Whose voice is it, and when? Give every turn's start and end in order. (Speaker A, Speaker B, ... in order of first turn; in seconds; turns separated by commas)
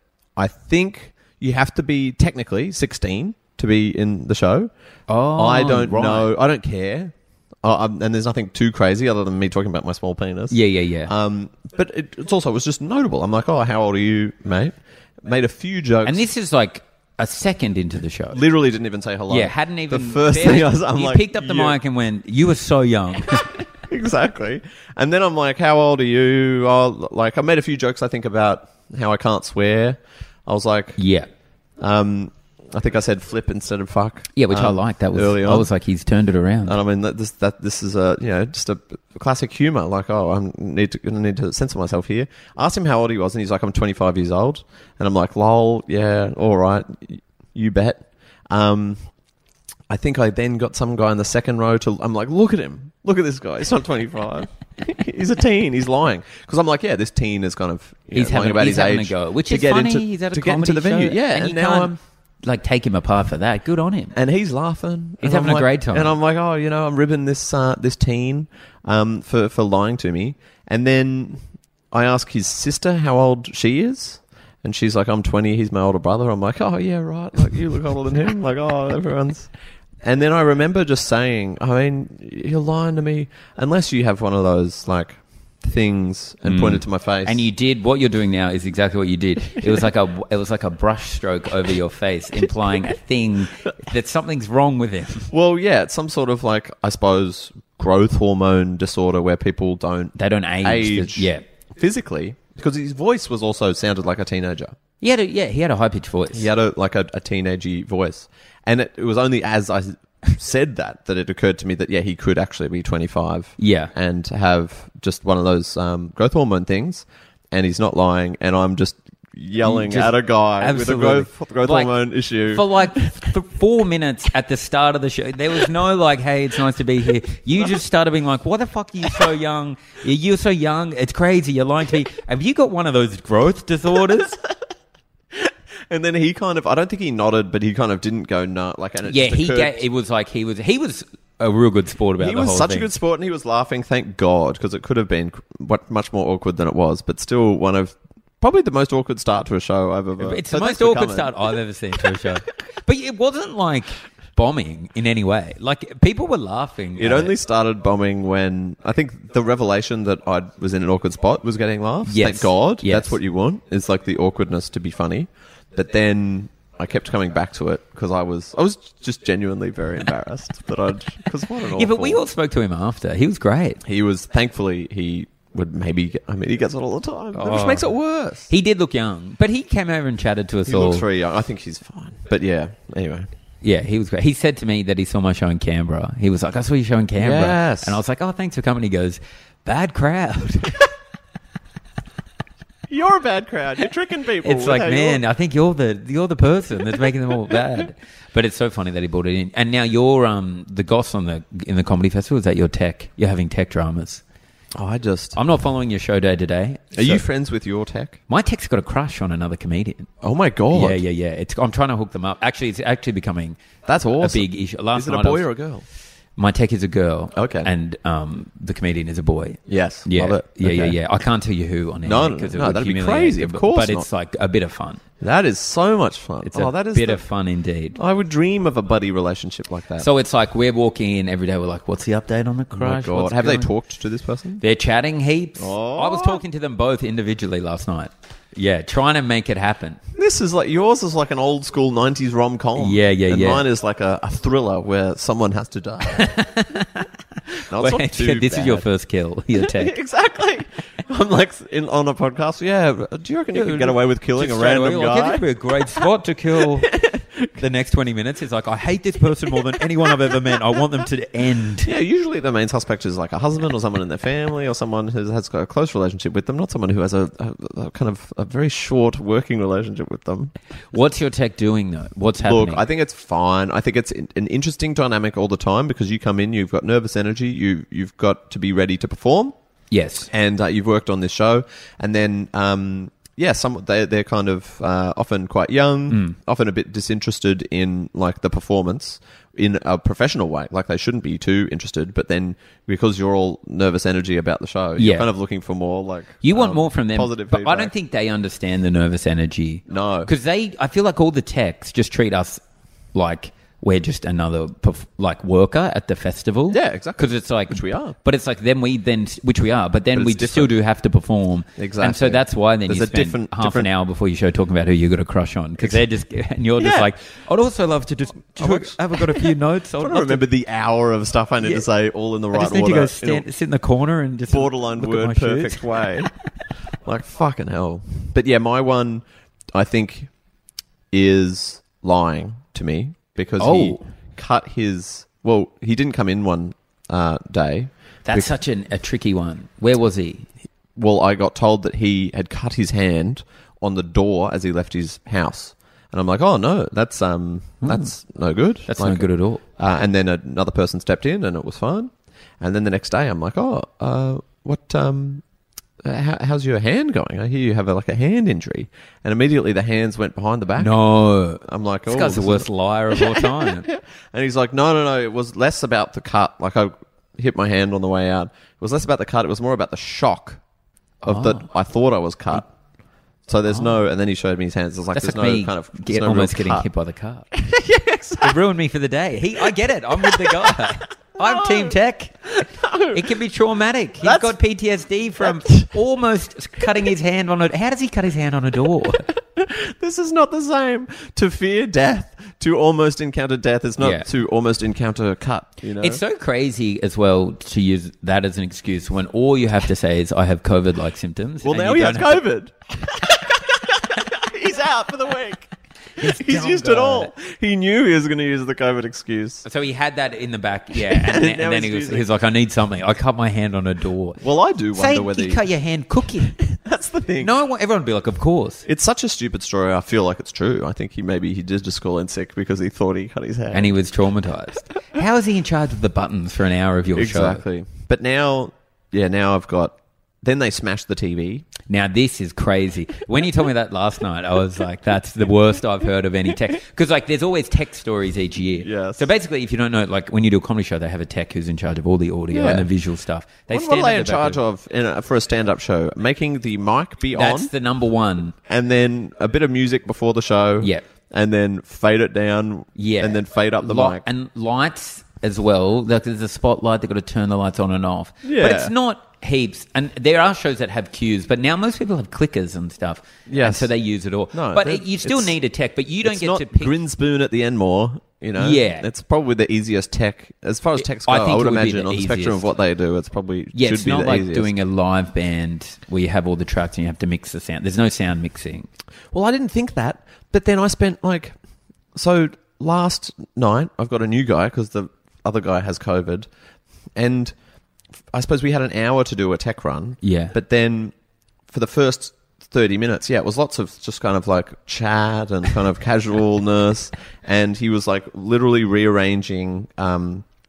Speaker A: 0.3-4.7, Speaker B: 5.1-6.3, Speaker A: 5.3-16.2, Speaker B: 10.5-11.1, Speaker B: 16.0-18.4, Speaker A: 18.3-21.8, Speaker B: 19.3-23.6, Speaker A: 23.9-31.0, Speaker B: 31.0-31.3, Speaker A: 31.8-35.7, Speaker B: 34.4-36.8, Speaker A: 36.6-49.0, Speaker A: 49.9-61.9, Speaker B: 58.1-64.1, Speaker A: 64.1-79.5, Speaker B: 65.2-66.1, Speaker A: 80.0-87.5, Speaker B: 86.4-95.3, Speaker A: 95.3-104.8, Speaker B: 100.2-101.4, Speaker B: 105.0-106.5, Speaker A: 106.3-123.0, Speaker B: 113.6-113.9, Speaker B: 119.6-134.4, Speaker A: 135.3-139.8, Speaker B: 139.0-142.9, Speaker A: 142.2-151.4, Speaker B: 150.2-157.3, Speaker A: 157.0-172.2, Speaker B: 162.1-163.2, Speaker B: 171.7-173.8, Speaker A: 173.8-178.5, Speaker B: 177.3-177.9, Speaker B: 178.5-181.0, Speaker A: 180.7-183.3, Speaker B: 183.6-190.8, Speaker A: 187.2-188.0, Speaker A: 192.9-195.2, Speaker B: 194.4-204.2, Speaker A: 204.7-205.4, Speaker B: 205.3-207.2, Speaker A: 206.9-208.2, Speaker B: 208.3-210.1, Speaker A: 210.2-211.0, Speaker B: 210.7-213.6, Speaker A: 213.8-215.8, Speaker B: 214.2-215.5, Speaker B: 216.4-225.0, Speaker A: 217.3-217.7, Speaker A: 219.7-221.0, Speaker A: 222.0-224.1, Speaker A: 225.2-227.2, Speaker B: 226.4-228.0, Speaker A: 227.9-230.1, Speaker B: 230.0-233.7, Speaker A: 232.7-234.6, Speaker B: 234.6-240.0, Speaker A: 235.6-236.4, Speaker A: 240.1-246.4, Speaker B: 242.8-243.6, Speaker B: 246.1-247.1, Speaker A: 247.7-248.8, Speaker B: 247.7-249.9, Speaker A: 249.5-256.0, Speaker B: 253.5-256.9, Speaker A: 256.6-257.6, Speaker B: 257.6-261.9, Speaker A: 259.6-260.4, Speaker A: 261.8-270.5, Speaker B: 270.9-272.8, Speaker A: 272.4-279.5, Speaker B: 279.9-280.3, Speaker A: 280.3-297.9, Speaker B: 286.1-286.4, Speaker B: 295.0-295.3, Speaker B: 296.4-302.6, Speaker A: 299.9-300.3, Speaker B: 303.1-320.4, Speaker A: 306.7-308.1, Speaker A: 310.1-310.7, Speaker A: 311.8-313.9, Speaker A: 316.8-317.1, Speaker A: 318.6-319.5, Speaker A: 320.0-323.4, Speaker B: 322.5-326.3, Speaker A: 324.5-326.3, Speaker A: 327.0-330.3, Speaker A: 331.1-338.5, Speaker B: 333.6-334.1, Speaker B: 338.2-340.5, Speaker A: 340.9-349.3, Speaker B: 347.8-348.1, Speaker B: 348.9-349.6, Speaker A: 349.8-355.4, Speaker A: 356.0-361.0, Speaker B: 360.8-363.9, Speaker A: 361.6-370.6, Speaker A: 371.2-372.7, Speaker B: 371.2-371.6, Speaker A: 373.5-376.9, Speaker B: 373.7-373.9, Speaker B: 375.1-377.5, Speaker A: 377.5-378.6, Speaker B: 378.4-382.4, Speaker A: 380.2-382.0, Speaker A: 382.5-383.2, Speaker B: 383.1-389.3, Speaker A: 384.2-384.5, Speaker A: 385.4-385.9, Speaker A: 389.4-396.2, Speaker B: 394.0-394.3, Speaker B: 396.0-402.4, Speaker A: 401.6-409.6, Speaker B: 406.2-407.3, Speaker B: 409.6-414.4, Speaker A: 410.9-412.2, Speaker A: 414.4-415.6, Speaker B: 414.9-416.6, Speaker A: 416.6-417.5, Speaker B: 417.4-418.9, Speaker A: 418.9-423.9, Speaker B: 423.7-427.6, Speaker A: 427.1-431.7, Speaker B: 431.9-444.6, Speaker A: 438.8-439.3, Speaker A: 442.5-442.9, Speaker A: 443.7-447.7, Speaker B: 447.3-448.5, Speaker A: 448.6-454.2, Speaker B: 452.9-466.9, Speaker A: 458.4-458.9, Speaker A: 463.5-463.9, Speaker A: 464.5-465.5, Speaker A: 466.2-474.7, Speaker B: 468.6-469.1, Speaker B: 471.0-472.7, Speaker B: 473.7-478.9, Speaker A: 479.3-481.6, Speaker A: 482.1-486.5, Speaker A: 487.1-487.5, Speaker A: 488.3-491.1, Speaker B: 490.2-490.5, Speaker A: 491.7-500.4